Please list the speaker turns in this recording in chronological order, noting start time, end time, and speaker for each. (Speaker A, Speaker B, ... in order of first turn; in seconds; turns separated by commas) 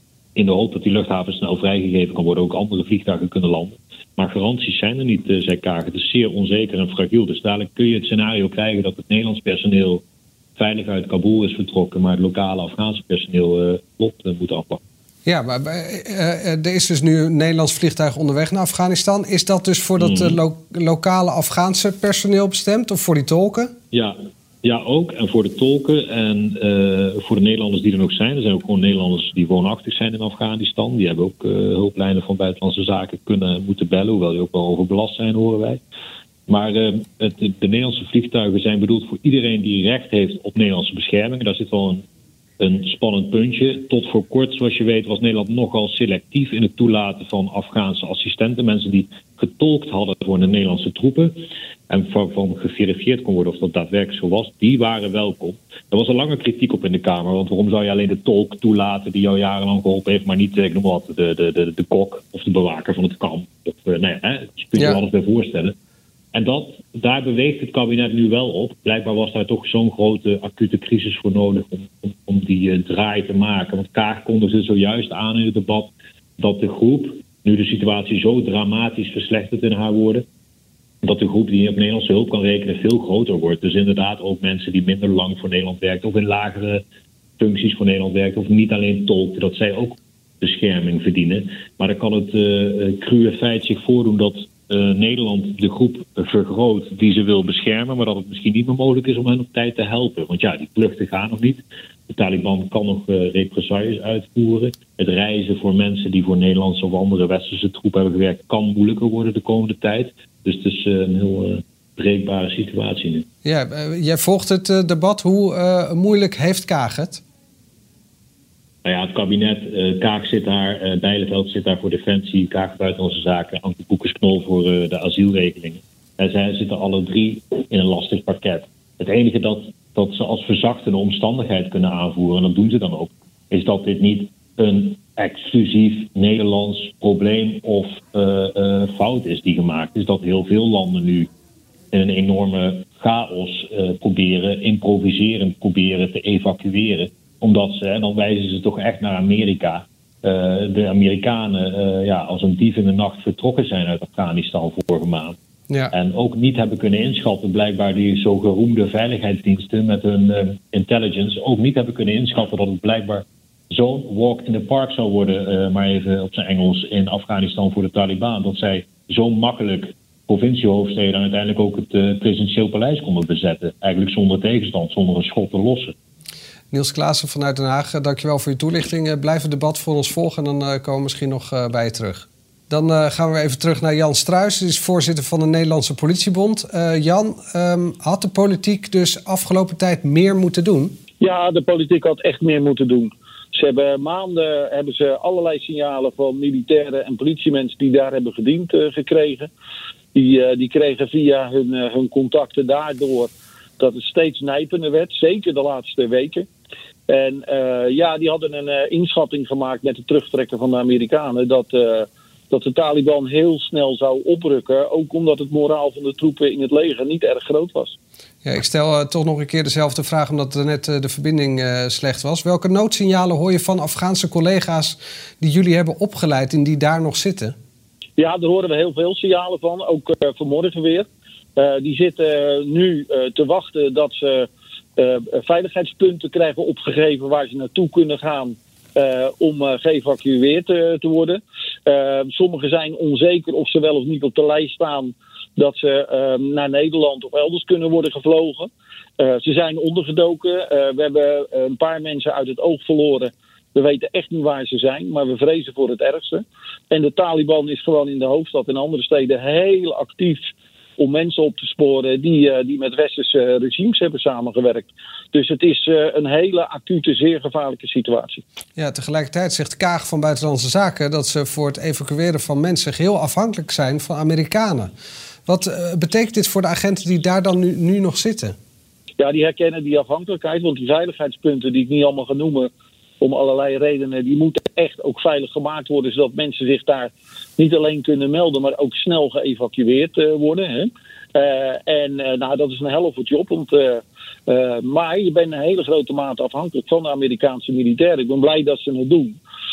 Speaker A: 0.3-10.0, Speaker A: 10.6-14.8, Speaker B: 15.2-23.7, Speaker A: 20.0-20.4, Speaker A: 23.9-35.8, Speaker A: 36.5-42.0, Speaker A: 42.6-51.4, Speaker A: 51.9-65.7, Speaker B: 64.8-65.0, Speaker A: 66.3-80.2, Speaker A: 81.0-86.8, Speaker A: 87.4-113.2, Speaker B: 113.4-117.2, Speaker A: 118.8-141.3, Speaker A: 141.9-155.4, Speaker A: 155.9-175.9, Speaker B: 176.7-190.9, Speaker C: 191.2-199.5, Speaker C: 200.1-206.5, Speaker C: 207.1-217.9, Speaker B: 218.4-227.5, Speaker C: 228.2-268.4, Speaker B: 268.8-274.9, Speaker B: 275.4-278.5, Speaker C: 279.2-299.4